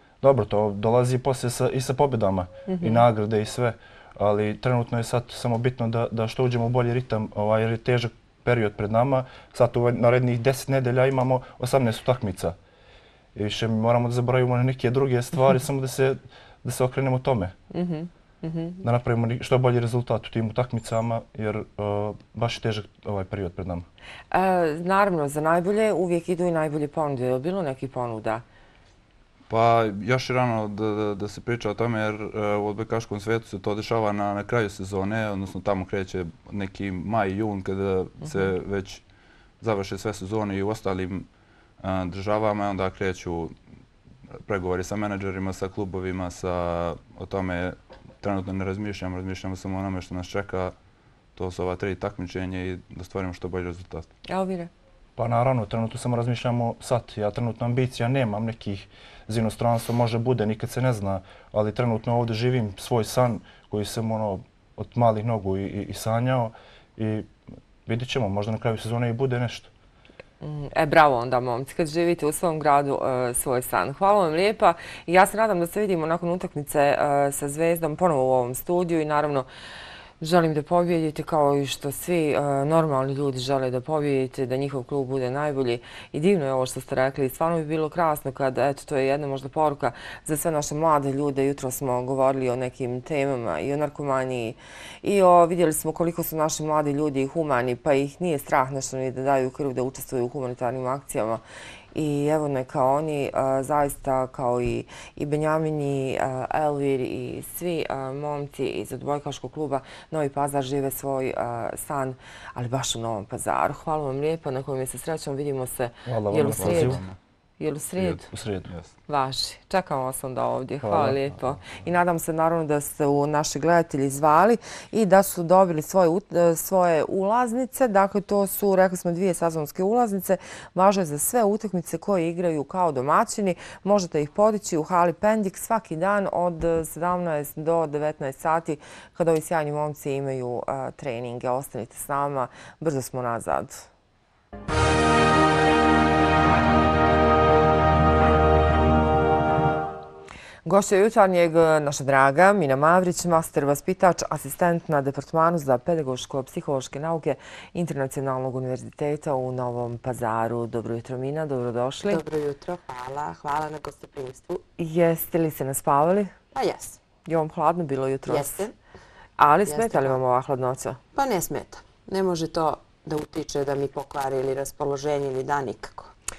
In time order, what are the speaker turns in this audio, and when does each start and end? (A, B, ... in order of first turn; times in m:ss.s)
0:00.2-0:12.6 A
0:02.7-0:03.1 B
0:13.4-0:17.6 A
0:17.7-0:18.8 B
0:18.8-0:23.9 A
0:24.3-0:28.4 B
0:29.5-0:39.0 C
0:38.2-0:38.5 B
0:39.6-0:41.3 C
0:41.8-0:43.5 C
0:44.4-0:50.7 C
0:51.4-0:54.1 C
0:54.3-0:54.7 B
0:55.2-1:07.3 A
1:07.9-1:09.7 A
1:10.4-1:19.5 B
1:20.2-1:41.4 B
1:41.9-1:57.0 B
1:56.1-1:57.1 A
1:56.6-1:57.2 C
1:57.6-1:58.3 B
1:58.0-1:58.7 A
1:59.1-2:23.9 B
2:00.8-2:01.2 A
2:30.6-2:42.2 B
2:42.1-2:44.6 D
2:44.8-2:46.3 B
2:46.5-2:47.0 D
2:47.3-2:48.6 B
2:48.3-2:48.7 D
2:49.4-2:51.0 B
2:49.7-2:50.2 D
2:51.1-2:56.1 D